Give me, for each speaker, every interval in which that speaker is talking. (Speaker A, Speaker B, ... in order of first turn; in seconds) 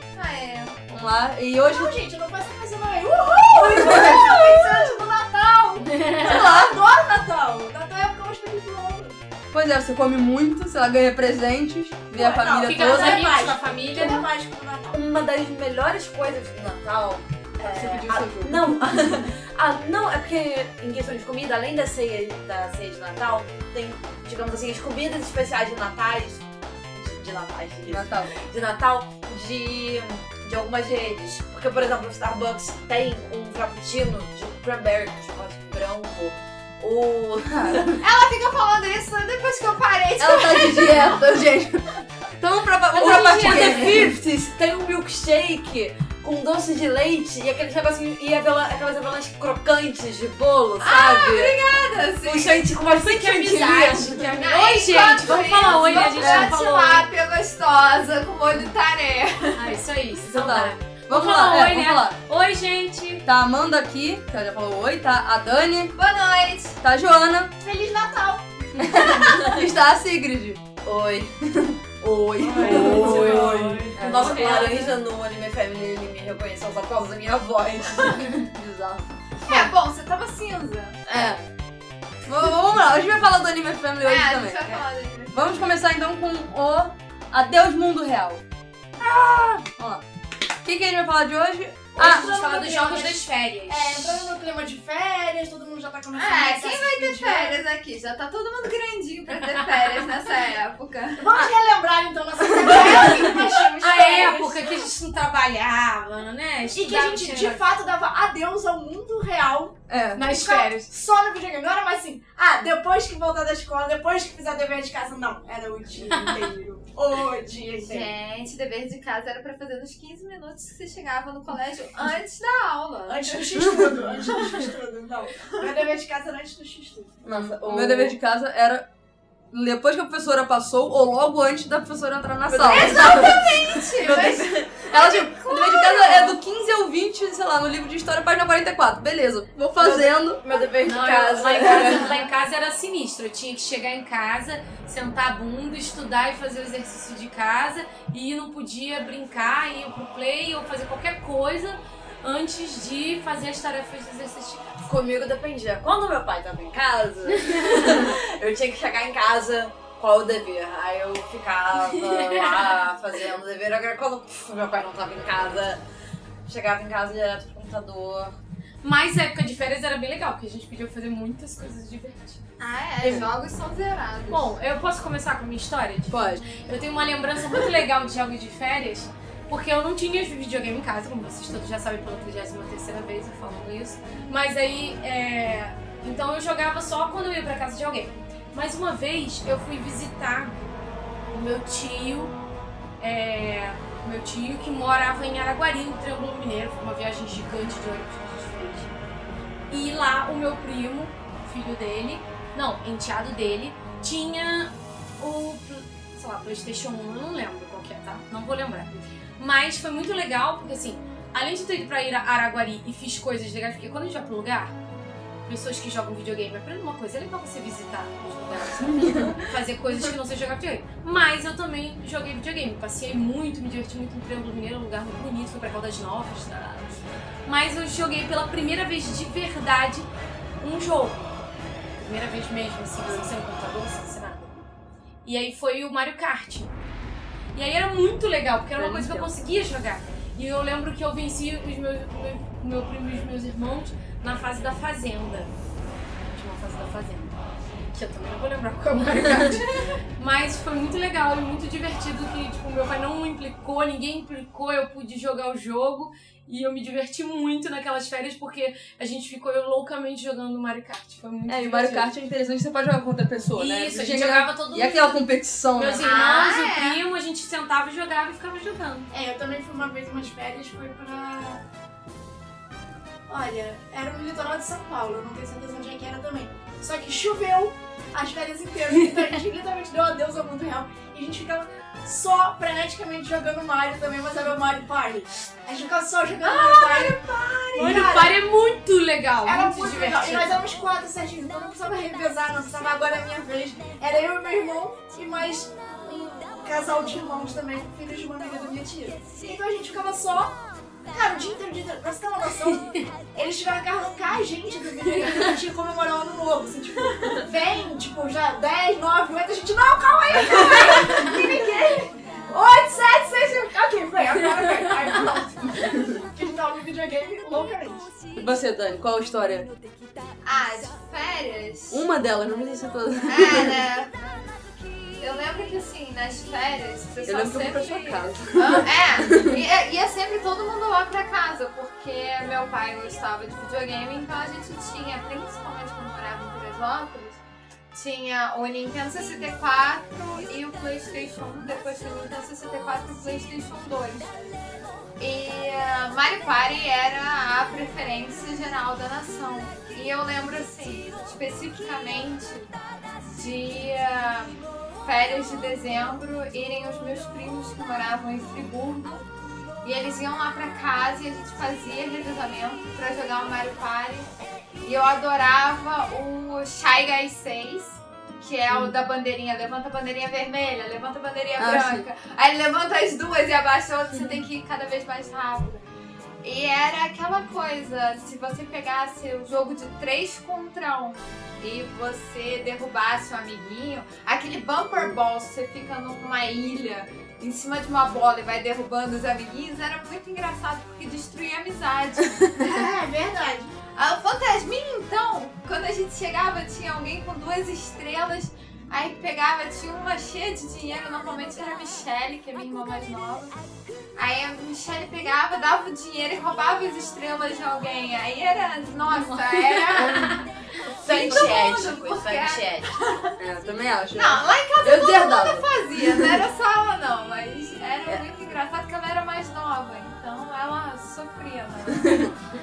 Speaker A: 0.1-0.8, 38.0-41.2, 50.8-52.7, 54.3-59.8, 66.0-66.8, 74.2-74.9, 79.5-81.0, 84.0-85.6, 96.1-101.3, 102.7-103.2, 104.4-104.8, 117.8-123.4, 132.6-136.4, 172.6-174.5, 266.0-267.0, 310.5-311.2, 320.4-322.0, 323.3-324.1, 325.2-337.4, 337.9-344.5, 345.2-359.2, 359.8-364.3, 364.8-375.8, 376.4-392.9, 393.9-403.6, 404.2-410.4, 411.0-413.4, 414.2-422.4
Speaker B: 0.9-1.9, 3.7-4.3, 6.2-6.8, 9.5-13.3, 17.6-18.8, 27.9-28.4, 37.5-37.9, 40.2-44.2, 56.2-56.5, 60.2-62.2, 63.2-66.0, 66.8-67.5, 68.8-70.6, 71.6-73.3, 74.0-74.8, 78.5-79.7, 81.1-81.4, 82.3-84.8, 85.3-88.4, 89.0-90.0, 90.6-92.3, 109.9-110.3, 123.6-124.0, 127.3-128.9, 129.5-133.5, 134.9-140.4, 141.6-142.0, 173.0-173.3, 176.1-176.4, 218.8-219.5, 233.0-233.3, 238.8-239.3, 261.5-266.1, 318.4-319.7, 321.9-323.8, 327.3-329.6, 371.6-372.1, 413.4-416.3, 421.9-422.3
Speaker C: 1.6-9.2, 12.1-15.0, 67.6-69.6, 72.4-74.2, 92.0-97.6, 101.2-104.6, 106.7-118.1, 123.1-127.2, 269.1-271.6, 273.3-288.4, 289.4-318.1, 392.6-393.8
Speaker D: 5.8-6.5, 12.6-14.3, 42.9-44.2, 52.8-57.1, 59.6-63.2, 72.7-73.5, 92.0-94.3, 102.8-107.6, 110.2-110.9, 140.7-154.9, 157.4-158.0, 162.2-162.7, 168.8-172.4, 174.3-190.6, 191.3-192.4, 193.0-198.9, 199.7-214.7, 215.5-230.1, 230.6-231.3, 232.0-234.7, 235.2-236.7, 237.6-245.5, 246.3-247.4, 247.9-262.1, 263.6-265.2, 265.8-269.1, 287.8-290.6, 409.2-410.4
Speaker E: 14.9-37.9, 43.0-51.6, 52.2-54.2, 70.8-71.3, 72.5-78.4, 127.2-128.2, 132.5-134.9, 139.8-142.3, 154.9-165.8, 166.5-168.4, 286.4-288.0, 311.3-311.7, 411.0-413.0